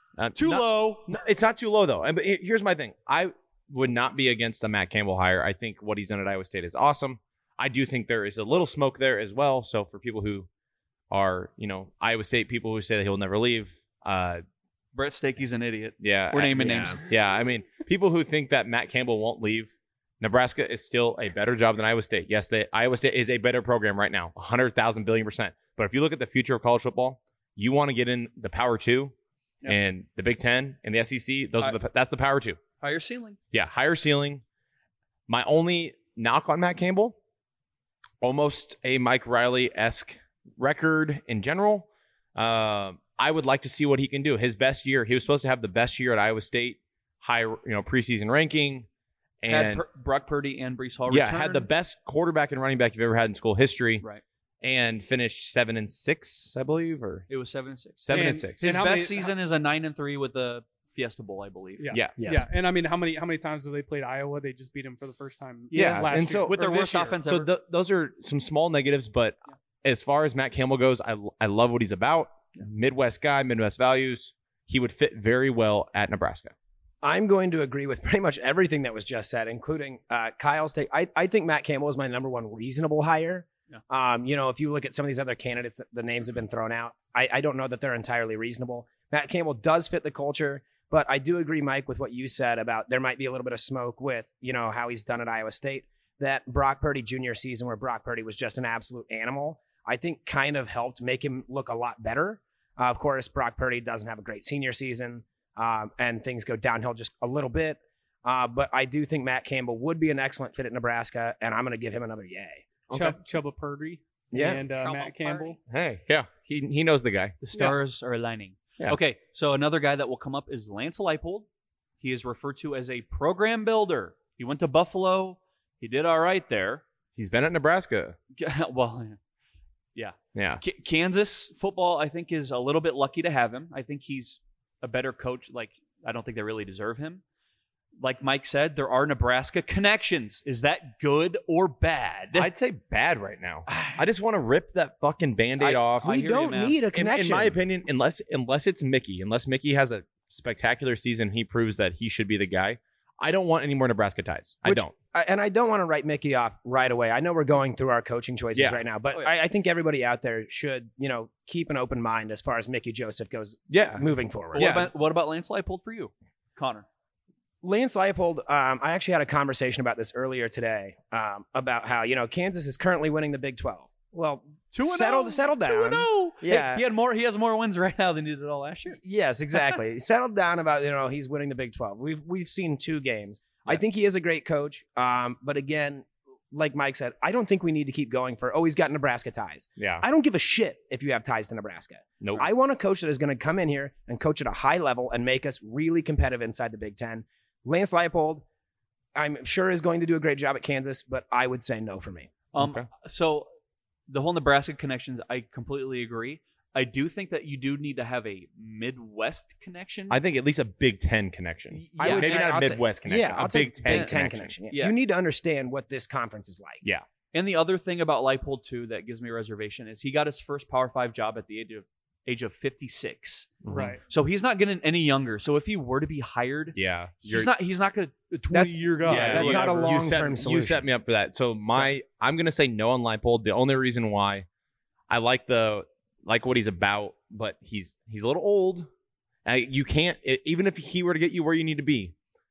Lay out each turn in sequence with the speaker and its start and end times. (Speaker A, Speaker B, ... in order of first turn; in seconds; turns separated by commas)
Speaker A: 0.2-10.5, Speaker B: 0.3-1.1, Speaker A: 11.1-14.4, Speaker B: 14.9-17.0, Speaker A: 16.0-29.1, Speaker A: 29.6-32.6, Speaker B: 32.8-33.4, Speaker A: 33.5-34.4, Speaker A: 35.3-37.1, Speaker A: 38.2-48.9, Speaker A: 49.4-49.8, Speaker B: 49.5-51.7, Speaker A: 51.1-54.0, Speaker A: 54.6-57.3, Speaker B: 57.3-61.9, Speaker A: 58.0-58.6, Speaker C: 58.1-59.3, Speaker C: 61.8-67.2, Speaker A: 61.9-62.2, Speaker D: 62.2-62.5, Speaker B: 65.7-67.5, Speaker A: 65.7-66.5, Speaker A: 67.2-76.5, Speaker D: 77.0-112.6, Speaker A: 112.9-113.2, Speaker C: 112.9-115.6, Speaker D: 114.3-114.6, Speaker B: 114.8-115.6, Speaker A: 115.7-117.4, Speaker B: 117.4-121.5, Speaker B: 122.0-126.8, Speaker A: 127.2-128.2, Speaker B: 128.4-129.2, Speaker B: 129.9-137.2, Speaker A: 130.3-130.6, Speaker B: 138.0-142.5, Speaker A: 142.3-146.1, Speaker B: 143.7-144.0, Speaker B: 145.6-146.8, Speaker D: 146.0-147.6, Speaker A: 146.9-154.9, Speaker D: 154.6-164.7, Speaker A: 158.5-158.8, Speaker A: 163.7-164.9, Speaker B: 164.5-166.8, Speaker D: 167.6-176.8, Speaker B: 174.7-179.0, Speaker D: 179.0-198.4, Speaker A: 189.8-190.0, Speaker A: 192.2-192.5, Speaker D: 199.1-202.3, Speaker B: 202.5-203.5, Speaker A: 202.6-202.9, Speaker B: 204.1-210.2, Speaker A: 210.1-214.5, Speaker B: 211.7-212.8, Speaker D: 212.0-216.8, Speaker B: 213.8-214.9, Speaker B: 217.3-229.9, Speaker A: 223.6-223.9, Speaker C: 223.7-224.0, Speaker A: 226.7-227.5, Speaker D: 228.5-230.9, Speaker C: 229.1-229.7, Speaker A: 229.1-234.4, Speaker A: 235.1-238.9, Speaker A: 239.4-242.1